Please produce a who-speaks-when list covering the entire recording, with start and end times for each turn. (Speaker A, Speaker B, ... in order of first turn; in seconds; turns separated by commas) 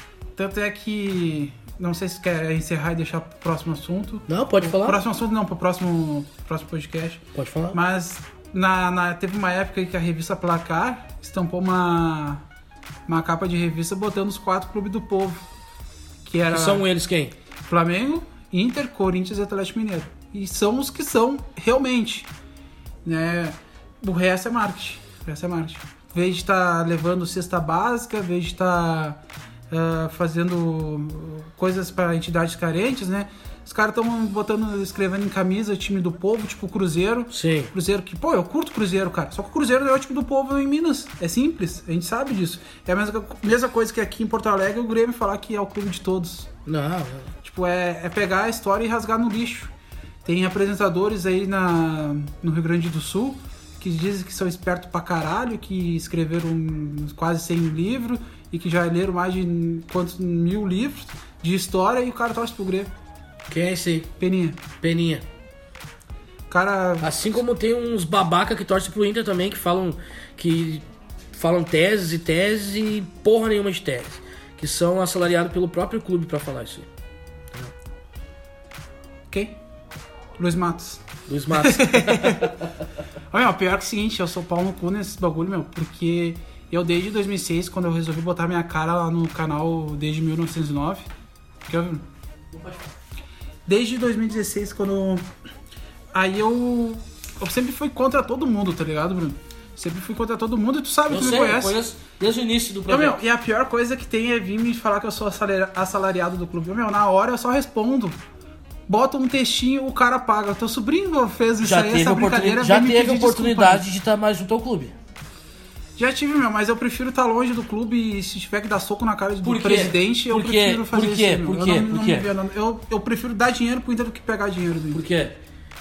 Speaker A: 0.4-12.4, Speaker B: 4.3-5.0, Speaker B: 7.3-7.8, Speaker A: 13.1-15.4, Speaker A: 16.2-16.9, Speaker B: 16.5-17.3, Speaker A: 17.7-22.3, Speaker A: 23.1-29.2, Speaker A: 29.7-46.5, Speaker B: 37.3-37.7, Speaker B: 46.6-47.3, Speaker A: 47.4-49.7, Speaker A: 50.2-62.9, Speaker B: 63.5-64.1, Speaker A: 64.2-64.6, Speaker B: 64.8-65.2, Speaker A: 66.5-67.2, Speaker B: 67.0-76.9, Speaker A: 79.3-79.6, Speaker A: 80.4-82.5, Speaker B: 81.3-82.7, Speaker A: 83.3-91.1, Speaker A: 91.7-92.0, Speaker B: 92.5-92.9, Speaker A: 93.7-95.3, Speaker A: 96.1-101.8, Speaker B: 101.1-103.2, Speaker A: 102.9-108.2, Speaker A: 108.9-113.8, Speaker B: 111.6-115.0, Speaker A: 116.0-125.0, Speaker B: 119.4-122.3, Speaker B: 124.9-125.4